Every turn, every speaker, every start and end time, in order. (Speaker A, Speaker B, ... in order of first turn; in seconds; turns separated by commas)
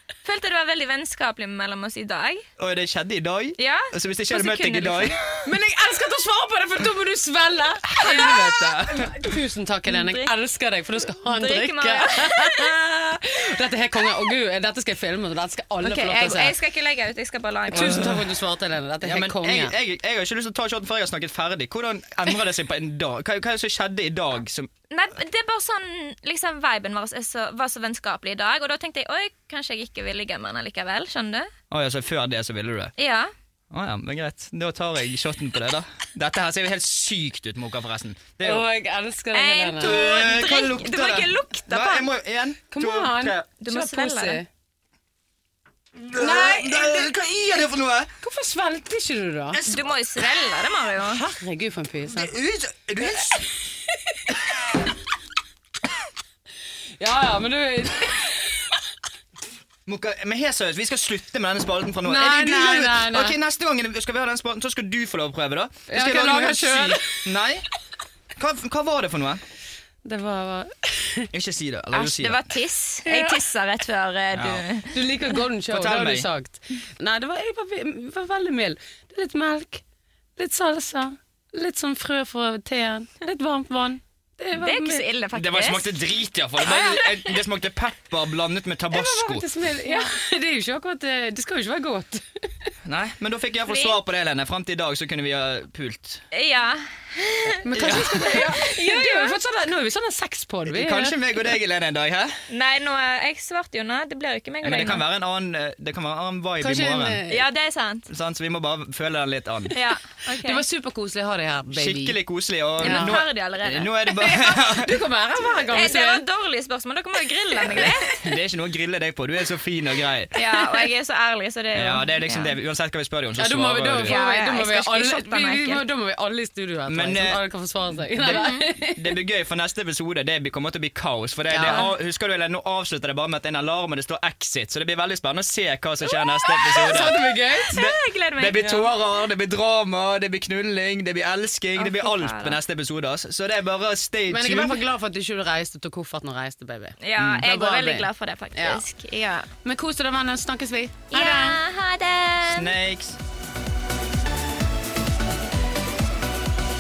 Speaker A: 0.2-2.5, Speaker B: 2.6-5.2, Speaker A: 3.6-5.2, Speaker C: 5.4-8.3, Speaker B: 7.8-9.1, Speaker A: 8.0-8.7, Speaker C: 8.9-16.5, Speaker A: 9.9-10.3, Speaker A: 11.2-12.8, Speaker A: 15.8-18.2, Speaker C: 17.7-19.7, Speaker B: 17.7-18.3, Speaker B: 19.0-24.7, Speaker A: 24.9-31.5, Speaker B: 31.7-32.9, Speaker A: 33.0-33.3, Speaker B: 33.7-38.6, Speaker C: 38.4-39.9, Speaker A: 39.3-42.1, Speaker B: 39.8-43.4, Speaker C: 42.7-44.5, Speaker A: 43.6-44.4, Speaker B: 46.0-48.1, Speaker C: 46.1-47.1, Speaker C: 48.2-49.6, Speaker B: 49.5-49.9, Speaker A: 49.6-51.2, Speaker C: 51.0-52.3, Speaker B: 52.1-53.5, Speaker C: 57.0-58.7, Speaker B: 59.9-67.7, Speaker C: 62.0-63.4, Speaker C: 65.9-67.2, Speaker B: 68.3-69.4, Speaker C: 70.0-71.3, Speaker B: 71.3-72.4, Speaker A: 71.9-75.0, Speaker C: 73.0-73.4, Speaker B: 74.3-74.7, Speaker C: 74.9-79.8, Speaker B: 75.7-76.3, Speaker C: 80.4-85.0, Speaker A: 84.5-85.9, Speaker B: 85.3-89.5, Speaker C: 86.7-87.0, Speaker A: 86.7-87.1, Speaker C: 88.9-92.7, Speaker A: 89.8-90.1, Speaker B: 92.8-96.2, Speaker A: 93.7-94.0, Speaker A: 96.3-99.4, Speaker C: 97.6-101.2, Speaker B: 97.7-98.5, Speaker B: 100.7-102.4, Speaker A: 102.5-105.0, Speaker B: 104.6-107.2, Speaker C: 106.6-107.4, Speaker A: 107.3-108.1, Speaker B: 108.1-109.7, Speaker A: 109.7-110.6, Speaker C: 110.3-112.2, Speaker B: 111.7-115.0, Speaker C: 112.8-113.2, Speaker A: 112.8-114.0, Speaker C: 114.1-116.2, Speaker A: 115.7-118.2, Speaker C: 117.7-118.0, Speaker B: 117.8-120.4, Speaker A: 120.3-122.5, Speaker B: 121.7-124.2, Speaker C: 123.4-129.1, Speaker A: 124.0-125.8, Speaker B: 126.9-127.4, Speaker B: 128.2-137.2, Speaker A: 128.2-128.6, Speaker C: 131.5-131.9, Speaker A: 136.1-136.9, Speaker C: 136.9-137.7, Speaker A: 137.7-138.9, Speaker B: 137.7-144.8, Speaker A: 141.8-142.6, Speaker C: 144.3-148.8, Speaker A: 147.0-149.5, Speaker B: 147.2-147.4, Speaker C: 149.6-151.6, Speaker A: 151.1-152.7, Speaker B: 152.4-153.2